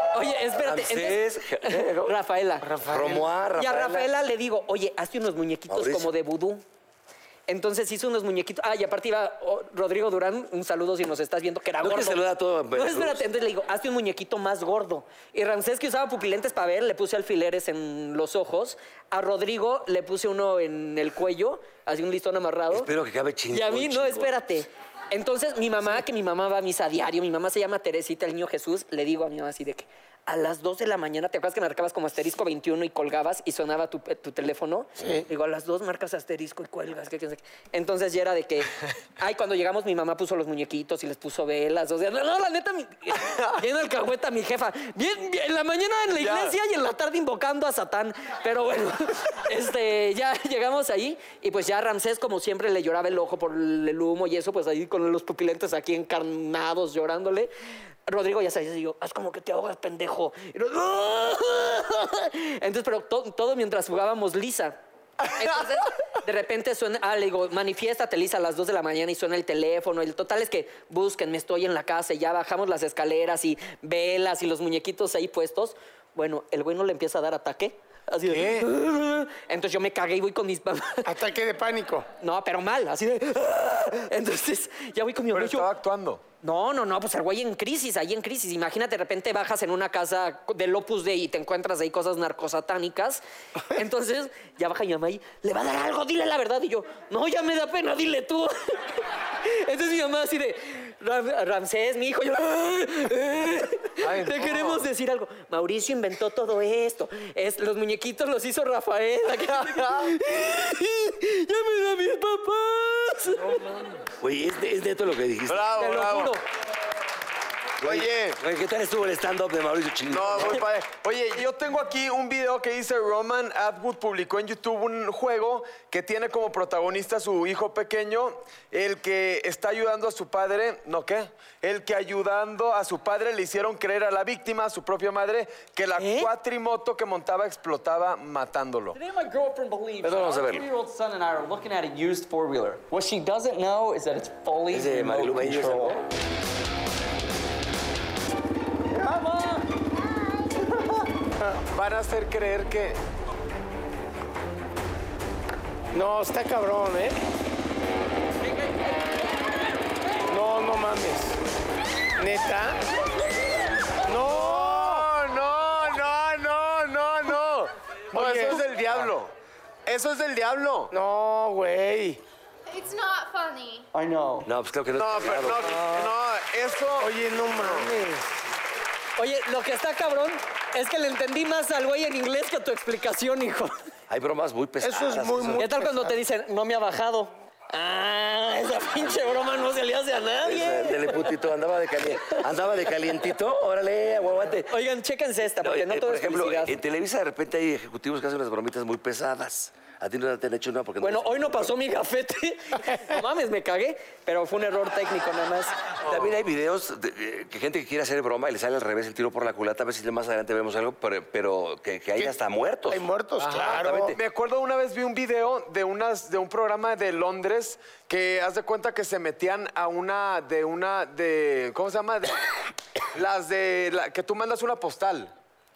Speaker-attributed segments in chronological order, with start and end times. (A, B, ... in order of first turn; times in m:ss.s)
0:00.1-0:02.7 A
0:00.5-0:02.2 B
0:02.6-0:03.3 C
0:02.9-0:04.1 B
0:03.6-0:06.6 A
0:05.7-0:06.1 B
0:07.5-0:22.9 A
0:11.8-0:13.2 B
0:22.7-0:24.3 B
0:23.5-0:57.5 A
0:35.0-0:35.2 C
0:46.2-0:46.6 D
0:58.1-1:21.1 A
1:18.3-1:18.7 D
1:21.0-1:22.1 C
1:22.2-1:25.7 A
1:25.3-1:26.2 D
1:26.4-1:53.7 A
1:44.0-1:44.9 D
1:49.5-1:50.1 D
1:54.2-1:55.7 B
1:55.5-1:56.4 D
1:55.8-1:56.4 A
1:57.8-2:00.6 B
1:57.8-1:58.4 D
2:00.1-2:19.0 D
2:16.0-2:16.3 A
2:18.9-2:26.0 E
2:20.0-2:20.7 B
2:24.7-2:26.0 B
2:28.9-2:29.6 E
2:31.7-2:33.0 D
2:35.9-2:37.2 C
2:38.5-2:39.2 A
2:40.3-2:41.4 C
2:42.2-2:42.8 C
2:44.0-2:45.1 C
2:44.1-2:49.3 D
2:48.1-2:48.6 C
2:49.8-2:50.9 D
2:50.9-2:52.2 C
2:53.9-2:54.5 E
2:54.4-2:55.8 B
2:55.0-2:57.9 D
2:55.7-2:56.1 A
2:57.0-2:58.3 C
2:59.2-3:03.8 A
3:04.1-3:05.6 B
3:04.8-3:06.2 C
3:05.6-3:11.3 A
3:10.4-3:14.8 B
3:14.7-3:16.8 A
3:15.6-3:21.7 B
3:21.0-3:25.8 A
3:26.0-3:33.0 B
3:32.9-3:34.2 C
3:33.4-3:42.5 D
3:43.1-3:45.3 D